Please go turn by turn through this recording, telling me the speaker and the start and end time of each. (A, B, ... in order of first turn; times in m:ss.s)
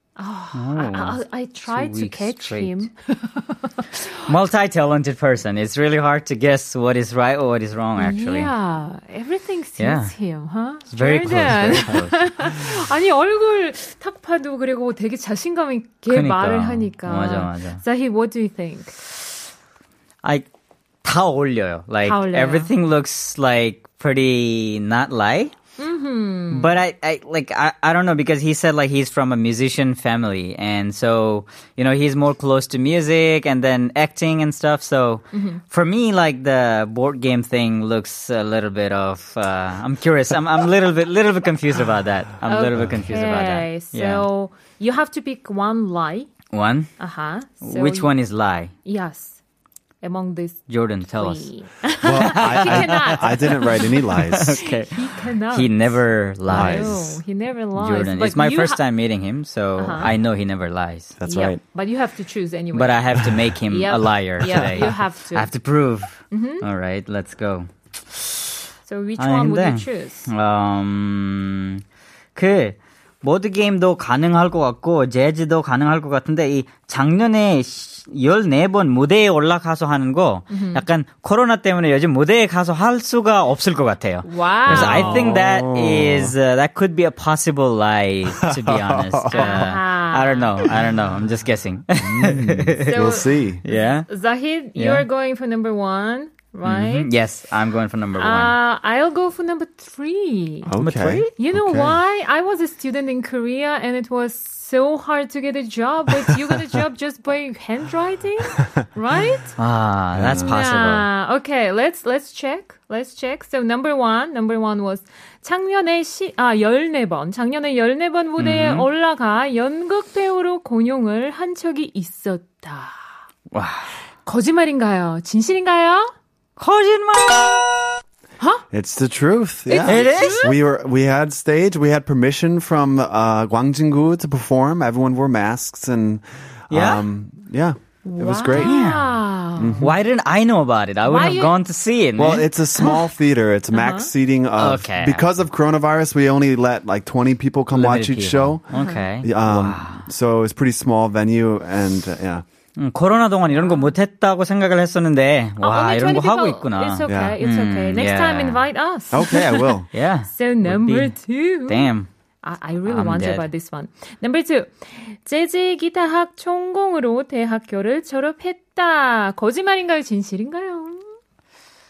0:00.2-0:04.1 A
0:00.5-0:02.7 B
0:04.2-0:08.5 B
0:08.0-0:19.2 A
0:09.8-0:10.2 B
0:10.9-0:12.5 B
0:16.1-0:17.8 B
0:21.0-0:25.5 B
0:22.0-0:22.7 A
0:25.8-0:26.8 A
0:26.5-0:44.2 B
0:35.3-0:35.6 A
0:42.5-0:46.3 A
0:46.5-0:46.9 B
0:47.0-0:48.1 A
0:47.6-0:48.7 B
0:48.8-0:49.4 A
0:50.0-0:58.8 A
0:50.7-0:51.5 B
0:52.0-0:54.6 C
0:52.1-0:57.2 B
0:56.5-0:57.2 C
0:57.8-1:01.2 B
0:59.8-1:00.1 A
1:01.2-1:01.6 C
1:01.2-1:05.5 A
1:02.7-1:08.2 B
1:04.6-1:04.9 C
1:06.3-1:06.7 A
1:08.9-1:10.3 A
1:09.2-1:11.8 B
1:12.4-1:34.1 B
1:20.5-1:20.8 A
1:24.2-1:25.3 A
1:24.7-1:26.4 C
1:28.4-1:29.7 C
1:29.3-1:30.8 A
1:32.0-1:33.6 C
1:32.8-1:37.1 A
1:34.8-1:35.1 B
1:36.6-1:38.6 B
1:38.1-1:40.7 A
1:40.7-1:42.0 C
1:40.8-1:41.3 B
1:41.4-1:49.6 A
1:49.6-1:51.1 B
1:50.1-1:50.6 C
1:50.5-2:03.0 A
1:58.4-1:58.9 B
2:03.5-2:03.9 B
2:04.2-2:06.1 A
2:06.6-2:07.6 B
2:08.4-2:08.6 A
2:08.7-2:18.8 C
2:09.7-2:10.6 A
2:09.8-2:10.5 B
2:16.7-2:17.1 B
2:18.0-2:19.8 A
2:18.6-2:19.2 B
2:19.6-2:19.9 C
2:19.8-2:22.9 B
2:21.0-2:21.5 A
2:22.2-2:28.6 C
2:23.7-2:24.1 A
2:24.6-2:25.3 B
2:27.7-2:30.1 B
2:28.7-2:29.0 A
2:29.2-2:32.4 C
2:32.8-2:38.7 B
2:33.5-2:33.9 A
2:35.6-2:51.1 A
2:37.1-2:37.4 C
2:39.1-2:39.9 C
2:39.9-2:42.1 B
2:42.9-2:43.5 B